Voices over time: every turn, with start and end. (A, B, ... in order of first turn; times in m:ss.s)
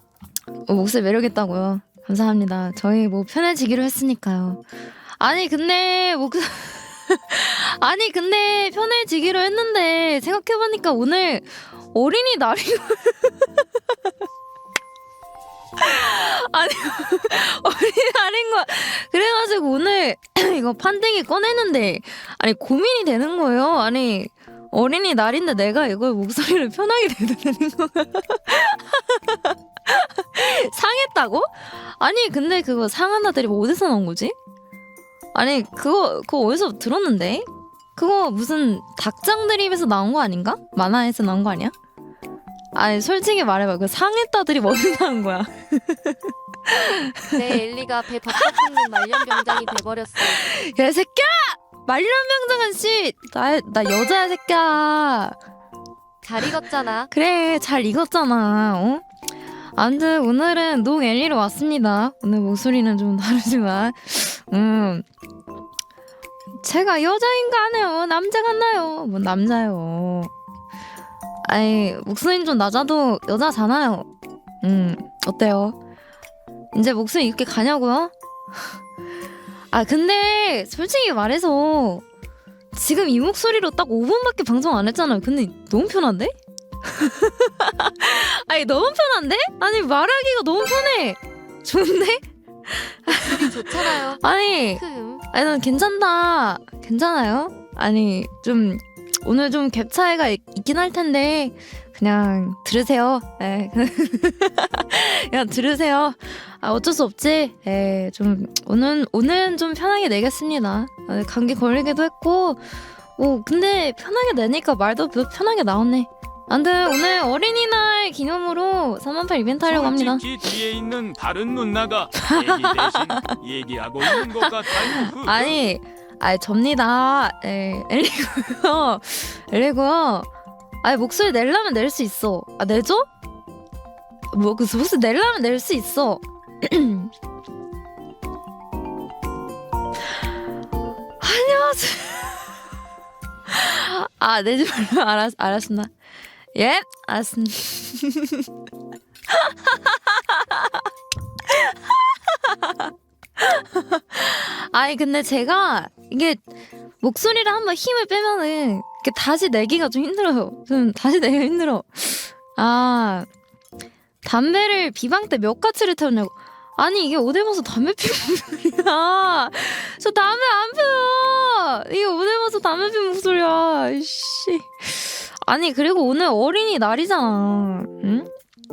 0:00.7-0:04.6 A
0:05.2-0:13.6 A
0:15.8-0:34.3 A
0:35.3-0:41.7 A
0:42.7-0:47.6 A
0:47.3-0:50.5 B
0:48.3-0:48.9 A
0:50.2-0:55.4 A
0:56.2-0:57.1 B
0:57.1-0:59.0 A
0:59.8-1:05.0 A
1:06.6-1:10.3 A
1:11.4-1:14.1 A
1:14.6-1:15.8 A
1:16.7-1:18.1 A
1:19.7-1:22.0 A
1:22.7-1:26.3 A
1:26.8-2:00.3 A
1:33.2-1:35.2 B
1:59.7-2:05.6 C
2:02.2-2:03.4 A
2:04.0-2:10.3 A
2:10.8-2:13.1 A
2:14.3-2:17.1 A
2:21.2-2:22.5 A
2:23.5-2:25.9 A
2:26.5-2:28.5 A
2:29.3-2:30.9 A
2:31.4-2:36.4 A
2:37.0-2:43.3 A
2:44.2-2:58.3 A